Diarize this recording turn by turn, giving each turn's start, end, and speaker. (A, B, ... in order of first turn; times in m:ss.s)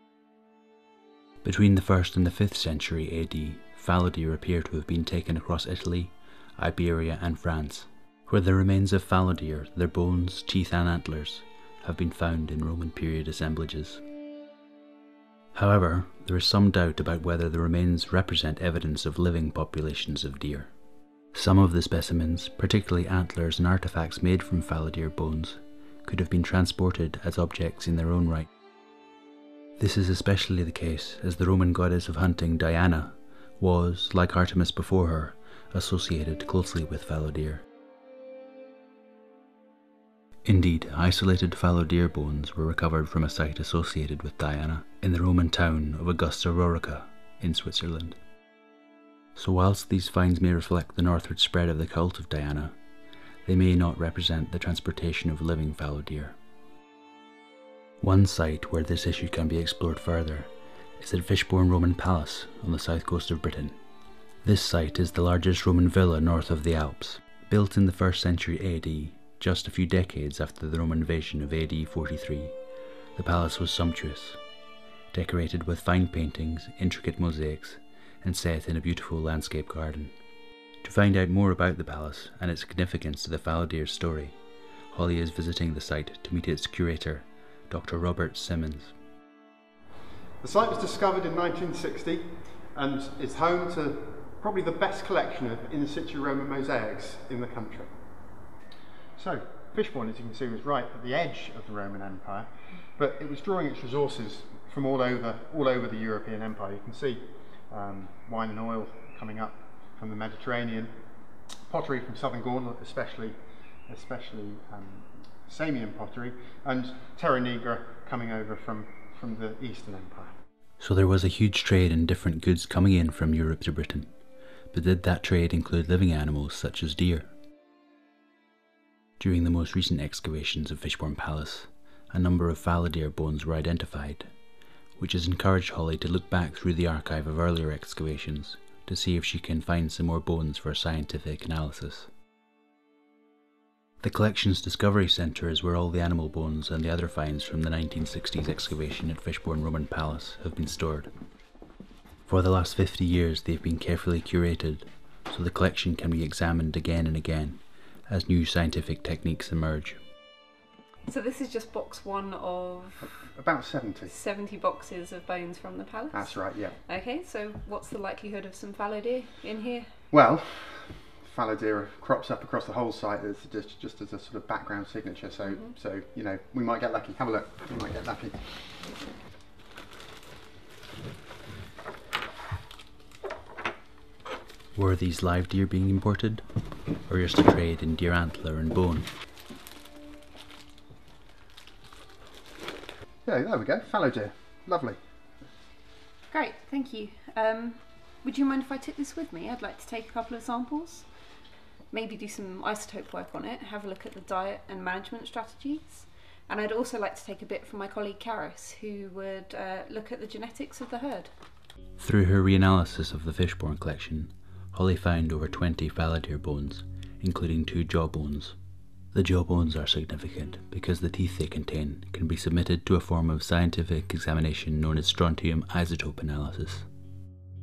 0:01.4-0:14.0 A
0:15.5-0:20.7 A
0:21.3-0:28.5 A
0:29.8-0:37.6 A
0:40.4-0:48.2 A
0:49.3-0:52.7 A
0:53.4-0:56.4 A
0:58.0-1:03.8 A
1:04.4-1:12.6 A
1:13.2-1:14.4 A
1:15.1-1:20.1 A
1:20.8-1:24.4 A
1:24.9-1:28.9 A
1:30.4-1:37.9 B
1:39.2-1:50.9 B
1:51.7-1:53.4 B
1:53.9-2:00.4 B
2:00.8-2:04.1 A
2:04.7-2:07.3 A
2:09.2-2:14.3 A
2:15.0-2:22.1 A
2:24.0-2:31.1 A
2:32.2-2:40.0 A
2:41.1-2:43.2 C
2:43.1-2:44.1 B
2:44.1-2:50.0 C
2:46.1-2:46.8 B
2:50.1-2:58.4 B
2:55.4-2:55.7 C
3:04.7-3:06.4 A
3:07.0-3:09.1 A
3:13.2-3:15.0 B
3:16.3-3:21.1 C
3:21.9-3:31.3 C
3:32.0-3:38.6 A
3:39.1-3:46.8 A